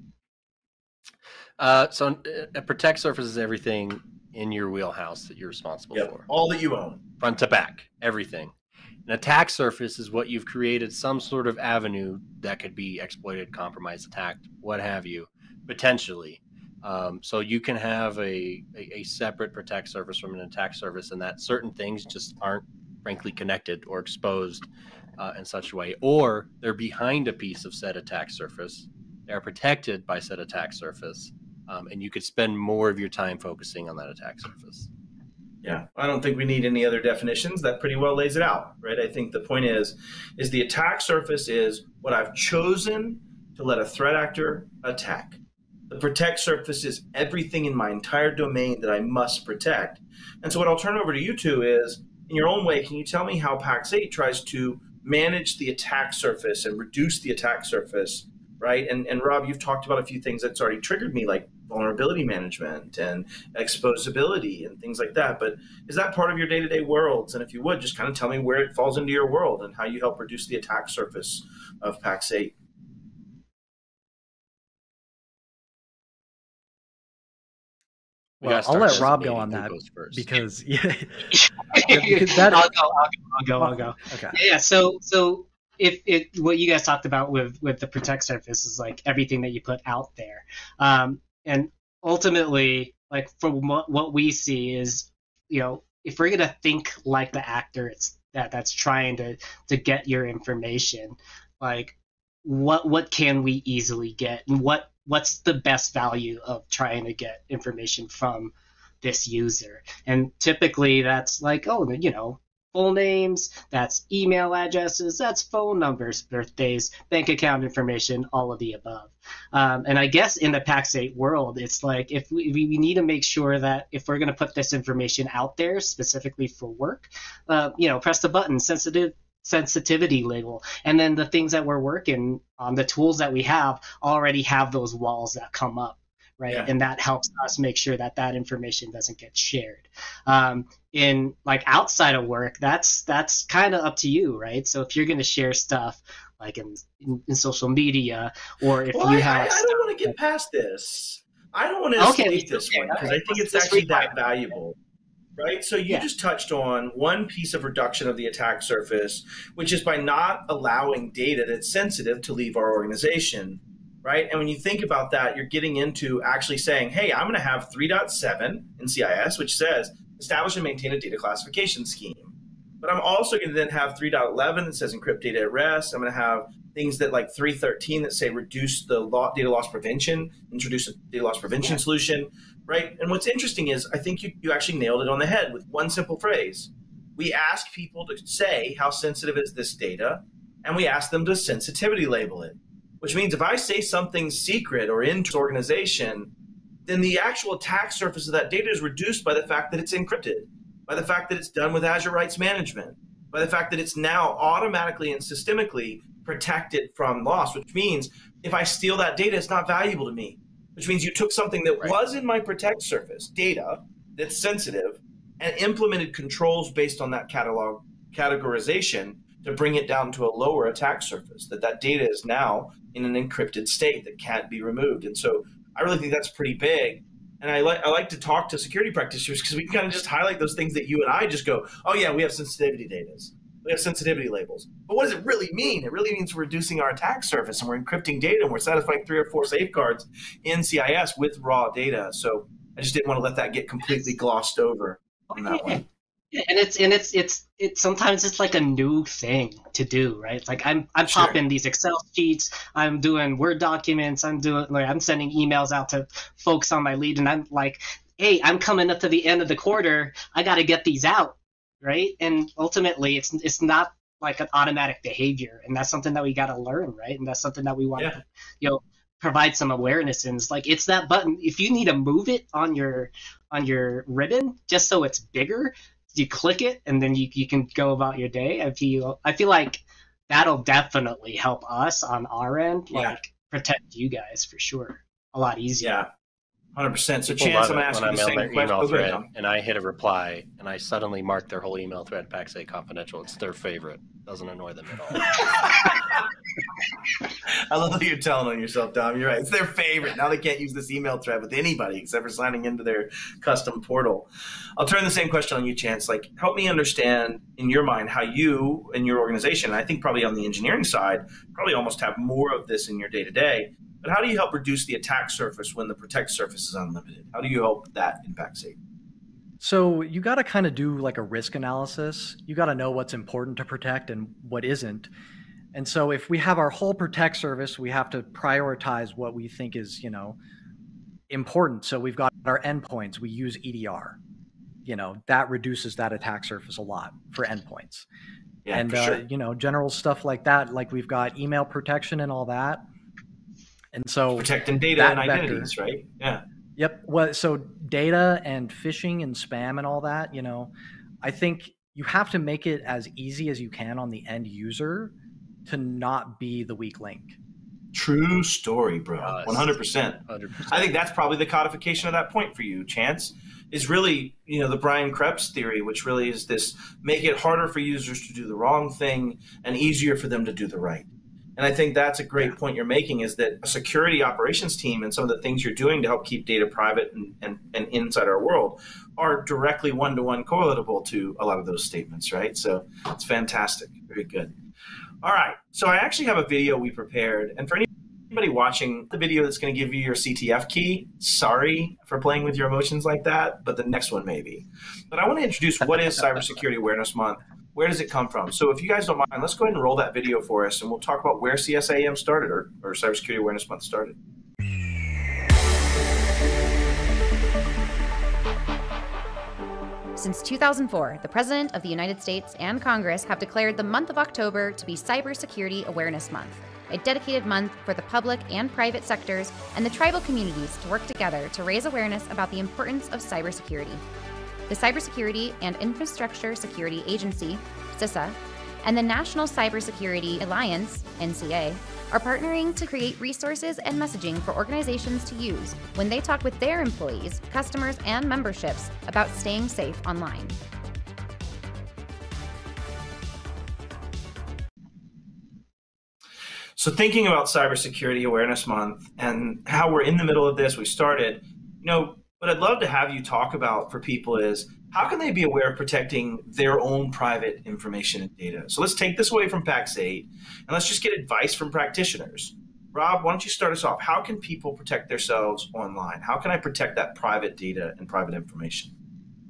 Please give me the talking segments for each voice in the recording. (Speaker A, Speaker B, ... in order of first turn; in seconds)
Speaker A: 1.6-6.3, 7.2-8.5, 9.1-34.9, 78.4-80.3, 287.3-295.4, 359.2-360.9
Speaker B: 5.9-7.0, 35.6-72.5, 148.9-154.8, 155.4-196.3, 196.8-245.8, 251.1-251.4, 282.9-283.2, 285.8-286.1, 286.7-289.2, 295.1-296.2, 297.4-304.3, 304.8-318.8, 338.6-339.2, 344.4-346.4, 357.9-384.5, 385.2-404.2, 446.8-468.9
Speaker C: 78.4-82.7, 83.6-84.4, 319.6-325.1, 325.7-330.4, 331.3-334.2, 334.8-338.1, 338.7-342.8, 343.9-345.7, 346.8-350.7, 351.2-355.1, 355.6-357.4
Speaker D: 81.3-150.1, 152.0-154.3, 245.3-286.0
Speaker E: 410.2-424.0, 424.7-440.6